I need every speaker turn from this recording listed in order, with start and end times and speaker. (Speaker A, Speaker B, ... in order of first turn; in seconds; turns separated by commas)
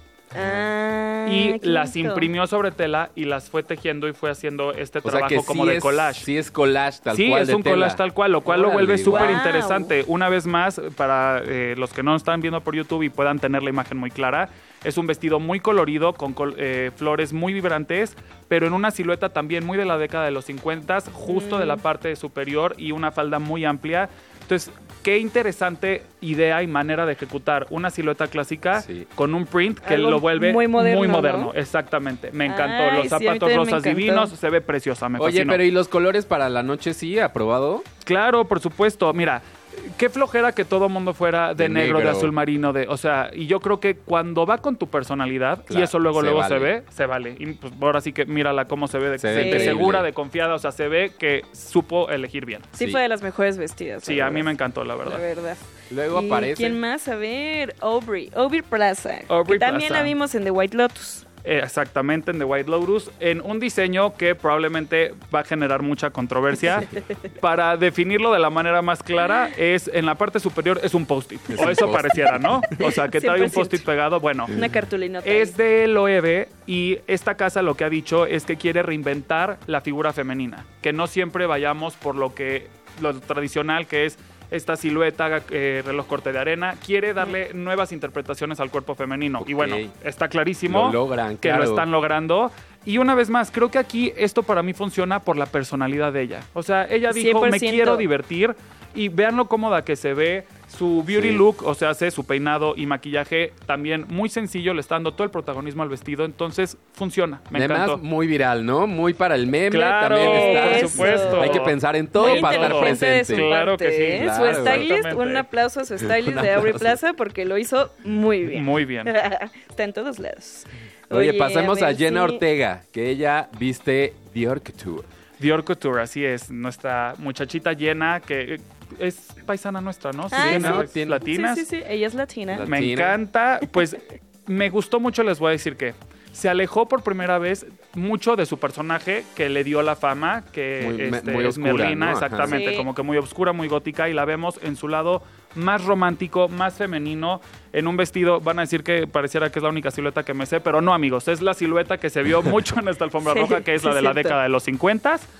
Speaker A: 0.3-2.3, Speaker B: 0.3-0.7, Speaker C: 1.2-6.3, Speaker B: 5.0-9.4, Speaker C: 7.1-35.6, Speaker A: 9.1-9.9, Speaker A: 21.2-21.8, Speaker B: 28.7-29.1, Speaker A: 29.8-31.5, Speaker A: 32.4-34.3, Speaker B: 35.2-37.8, Speaker C: 38.0-52.7, Speaker B: 41.5-42.3, Speaker B: 45.7-46.7, Speaker B: 49.2-50.1, Speaker A: 49.3-49.9, Speaker B: 52.7-53.0, Speaker A: 52.8-54.5, Speaker C: 54.0-55.2, Speaker A: 55.0-61.2, Speaker B: 55.9-56.8, Speaker C: 59.3-60.1, Speaker C: 61.4-74.5, Speaker B: 71.5-72.8, Speaker A: 72.8-73.8, Speaker A: 74.5-75.5, Speaker C: 75.2-108.0, Speaker B: 89.4-89.9, Speaker B: 90.7-91.8, Speaker A: 97.1-98.0, Speaker B: 101.1-101.4, Speaker B: 107.5-113.5, Speaker C: 109.7-115.5, Speaker A: 110.1-122.4, Speaker B: 114.1-114.9, Speaker B: 116.0-117.0, Speaker C: 118.5-119.1, Speaker B: 121.1-125.1, Speaker C: 125.4-131.7, Speaker A: 130.3-132.7, Speaker B: 130.3-131.2, Speaker B: 132.5-133.2, Speaker C: 132.7-155.3, Speaker B: 140.8-142.6, Speaker A: 142.4-142.9, Speaker A: 153.2-154.3